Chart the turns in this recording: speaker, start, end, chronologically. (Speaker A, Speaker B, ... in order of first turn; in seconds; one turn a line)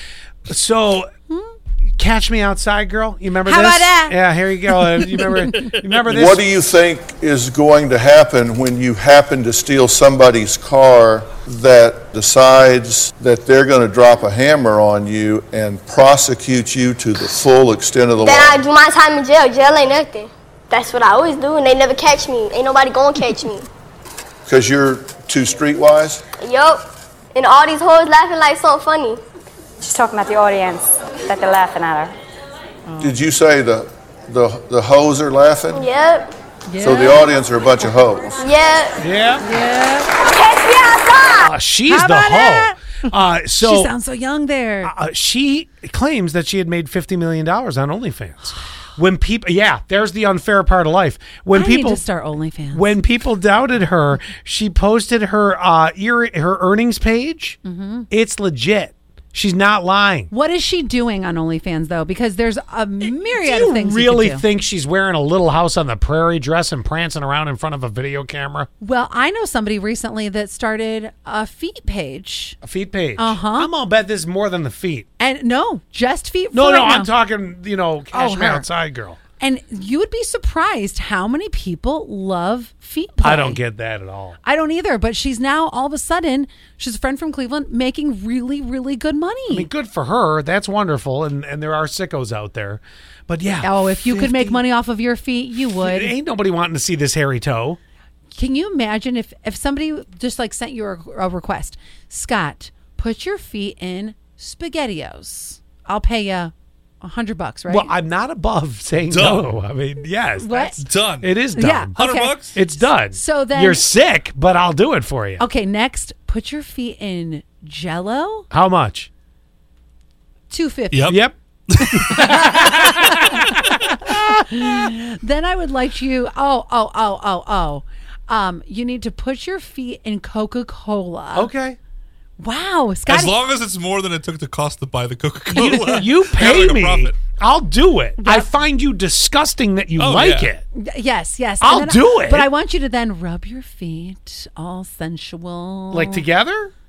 Speaker A: 0.5-1.1
Speaker A: 2.0-6.4
Speaker B: 3.4-5.5
Speaker C: 6.1-18.7
Speaker D: 18.2-23.7
Speaker C: 24.4-26.2
Speaker D: 26.4-29.2
Speaker E: 29.8-32.1
Speaker B: 32.9-33.2
Speaker C: 33.0-35.9
Speaker D: 35.7-36.3
Speaker B: 36.7-37.3
Speaker C: 36.8-38.4
Speaker D: 38.4-39.0
Speaker A: 39.0-39.4
Speaker B: 39.4-40.1
Speaker D: 40.2-41.5
Speaker A: 41.4-43.9
Speaker B: 41.8-44.9
Speaker A: 44.8-52.0
Speaker B: 51.5-53.0
Speaker A: 52.7-57.6
Speaker B: 57.6-58.1
Speaker A: 58.1-60.3
Speaker B: 60.3-64.4
Speaker A: 63.0-68.7
Speaker B: 68.8-72.6
Speaker A: 72.6-75.1
Speaker B: 73.2-73.7
Speaker B: 75.2-77.2
Speaker A: 76.5-79.2
Speaker B: 78.1-78.7
Speaker B: 79.4-83.6
Speaker A: 83.2-84.4
Speaker B: 84.4-89.7
Speaker A: 89.5-94.6
Speaker B: 93.6-96.1
Speaker A: 95.8-97.8
Speaker B: 98.3-107.9
Speaker A: 107.7-112.0
Speaker F: 109.1-109.5
Speaker B: 110.3-110.9
Speaker F: 110.7-111.4
Speaker B: 111.5-113.9
Speaker F: 112.0-112.6
Speaker A: 112.5-115.4
Speaker B: 115.4-118.5
Speaker A: 118.5-119.1
Speaker B: 120.5-121.1
Speaker F: 120.9-121.2
Speaker A: 121.1-121.3
Speaker F: 121.7-123.2
Speaker A: 121.9-124.4
Speaker B: 122.2-123.4
Speaker B: 124.0-131.5
Speaker A: 131.3-131.8
Speaker B: 132.4-133.4
Speaker F: 133.1-137.2
Speaker A: 135.5-140.6
Speaker B: 138.2-138.5
Speaker F: 140.0-140.5
Speaker B: 140.7-146.2
Speaker A: 141.6-142.5
Speaker A: 145.9-146.7